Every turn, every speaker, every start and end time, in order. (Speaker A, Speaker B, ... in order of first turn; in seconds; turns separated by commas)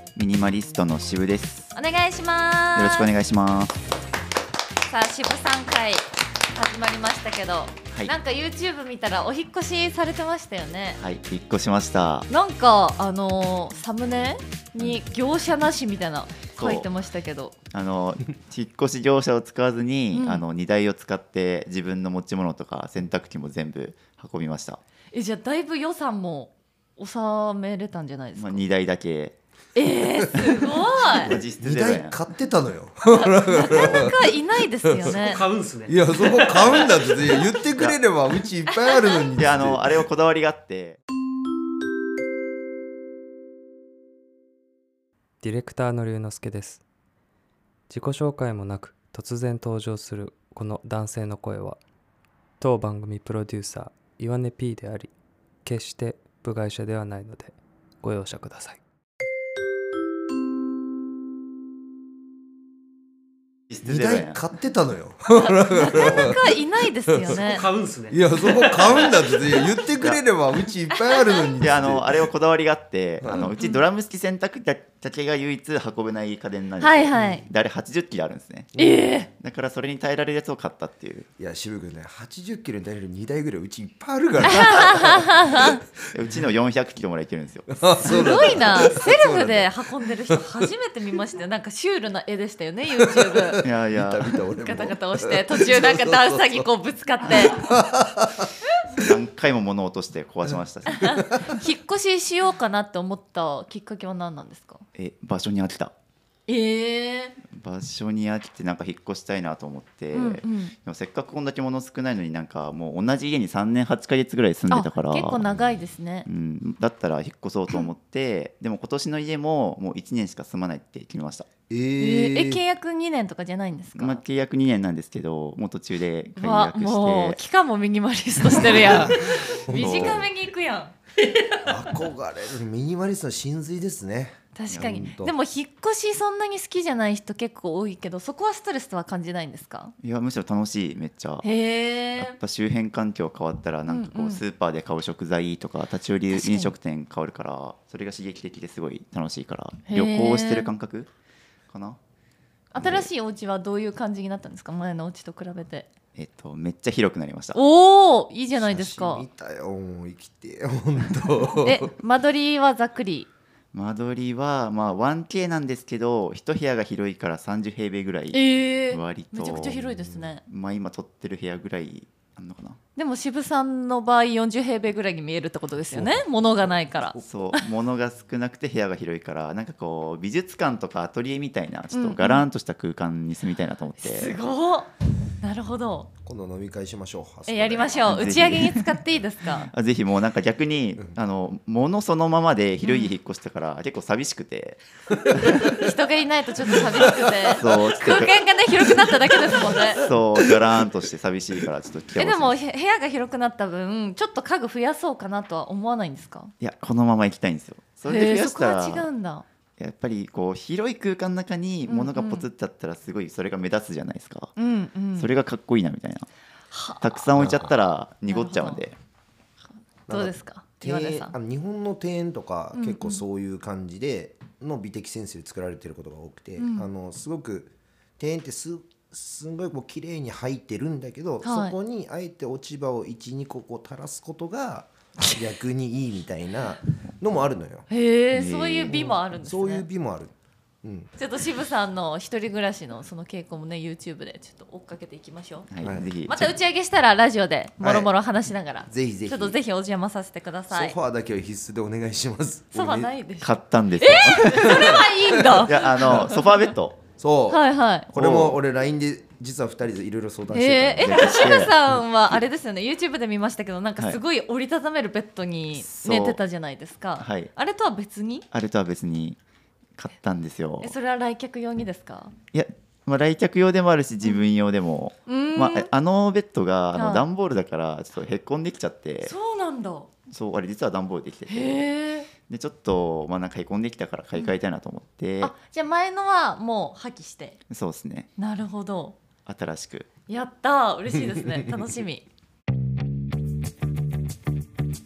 Speaker A: 0.2-1.7, Speaker B: 1.7-3.1, Speaker A: 2.8-3.8, Speaker B: 4.9-11.0, Speaker A: 11.0-12.3, Speaker B: 12.3-17.6, Speaker A: 16.6-16.9, Speaker A: 17.7-24.8, Speaker B: 20.1-20.4, Speaker B: 25.1-28.7, Speaker A: 28.4-29.4, Speaker B: 29.8-31.3, Speaker A: 30.4-32.1, Speaker C: 31.1-34.3, Speaker B: 33.1-35.4, Speaker C: 34.8-35.2, Speaker D: 35.0-37.4, Speaker C: 35.9-40.1, Speaker B: 38.7-39.2, Speaker A: 39.4-41.0, Speaker E: 45.4-46.8, Speaker E: 47.9-51.8, Speaker E: 52.6-55.1, Speaker E: 55.6-58.8, Speaker A: 63.7-64.4, Speaker C: 63.8-66.5, Speaker B: 65.3-67.7, Speaker A: 65.9-66.3, Speaker C: 67.1-67.4, Speaker D: 67.2-69.6, Speaker C: 68.1-72.3, Speaker A: 71.6-78.7, Speaker C: 73.2-73.6, Speaker B: 73.6-73.8, Speaker B: 76.8-77.4, Speaker B: 78.8-79.3, Speaker A: 79.4-81.3, Speaker C: 81.4-86.4, Speaker B: 84.5-85.8, Speaker A: 86.1-88.6, Speaker C: 87.7-90.5, Speaker B: 88.0-93.6, Speaker C: 93.0-96.7, Speaker A: 93.6-94.4, Speaker B: 94.5-97.7, Speaker C: 97.2-99.1, Speaker A: 99.0-101.4, Speaker C: 100.5-101.5, Speaker B: 100.9-104.8, Speaker A: 105.0-105.9, Speaker B: 106.5-107.4, Speaker A: 107.5-115.6, Speaker B: 110.1-110.7, Speaker B: 114.7-116.3, Speaker A: 116.3-121.5, Speaker C: 121.7-122.6, Speaker B: 122.0-124.2, Speaker A: 124.0-127.4, Speaker B: 126.4-130.9, Speaker A: 128.5-130.3, Speaker C: 128.5-130.3, Speaker C: 131.6-135.3, Speaker B: 134.6-139.9, Speaker A: 140.0-141.5, Speaker B: 141.4-142.4, Speaker A: 142.2-151.1, Speaker B: 143.9-144.4, Speaker B: 146.3-146.7, Speaker B: 149.9-150.7, Speaker A: 151.7-152.0, Speaker B: 152.7-155.9, Speaker A: 156.2-157.6, Speaker B: 157.5-159.3, Speaker C: 158.5-161.9, Speaker B: 161.6-163.3, Speaker A: 163.7-172.8, Speaker B: 168.3-170.4, Speaker B: 173.0-177.6, Speaker A: 177.2-184.3, Speaker B: 181.9-182.4, Speaker B: 184.0-186.1, Speaker C: 186.2-188.5, Speaker B: 187.5-189.7, Speaker A: 188.1-189.0, Speaker A: 189.6-195.8, Speaker B: 192.8-193.1, Speaker C: 195.3-195.8, Speaker B: 195.4-200.0, Speaker A: 197.0-202.6, Speaker C: 197.5-197.8, Speaker C: 200.1-200.5, Speaker B: 202.2-206.5, Speaker A: 206.6-209.1, Speaker B: 208.1-209.4, Speaker A: 209.8-214.5, Speaker B: 211.9-212.5, Speaker B: 214.6-215.3, Speaker A: 215.2-216.3, Speaker B: 216.7-217.3, Speaker A: 217.0-219.0, Speaker C: 217.4-217.7, Speaker B: 218.3-218.8, Speaker B: 220.1-221.3, Speaker C: 220.1-237.9, Speaker B: 222.7-223.2, Speaker B: 226.6-226.9, Speaker B: 231.4-231.8, Speaker B: 237.9-239.9, Speaker A: 238.3-239.0, Speaker C: 238.9-241.1, Speaker B: 241.2-245.7, Speaker A: 245.7-246.5, Speaker C: 245.8-246.1, Speaker B: 246.3-250.9, Speaker C: 247.8-248.1, Speaker C: 248.9-249.6, Speaker C: 250.7-253.1, Speaker B: 252.7-256.7, Speaker A: 253.4-257.0, Speaker C: 254.6-256.3, Speaker C: 257.2-261.3, Speaker B: 257.5-258.1, Speaker A: 258.1-258.6, Speaker B: 260.5-268.5, Speaker A: 261.0-261.9, Speaker A: 265.8-266.4, Speaker A: 267.2-267.5, Speaker A: 268.5-269.4, Speaker A: 270.0-270.9, Speaker B: 270.8-272.3, Speaker A: 272.5-279.3, Speaker B: 275.3-275.9, Speaker B: 276.9-277.3, Speaker B: 279.2-280.1, Speaker A: 280.3-281.8, Speaker B: 281.5-282.3, Speaker A: 282.5-285.5, Speaker B: 285.4-287.6, Speaker A: 287.7-288.3, Speaker B: 288.4-289.2, Speaker A: 289.5-290.1, Speaker B: 290.3-292.2, Speaker C: 291.1-291.8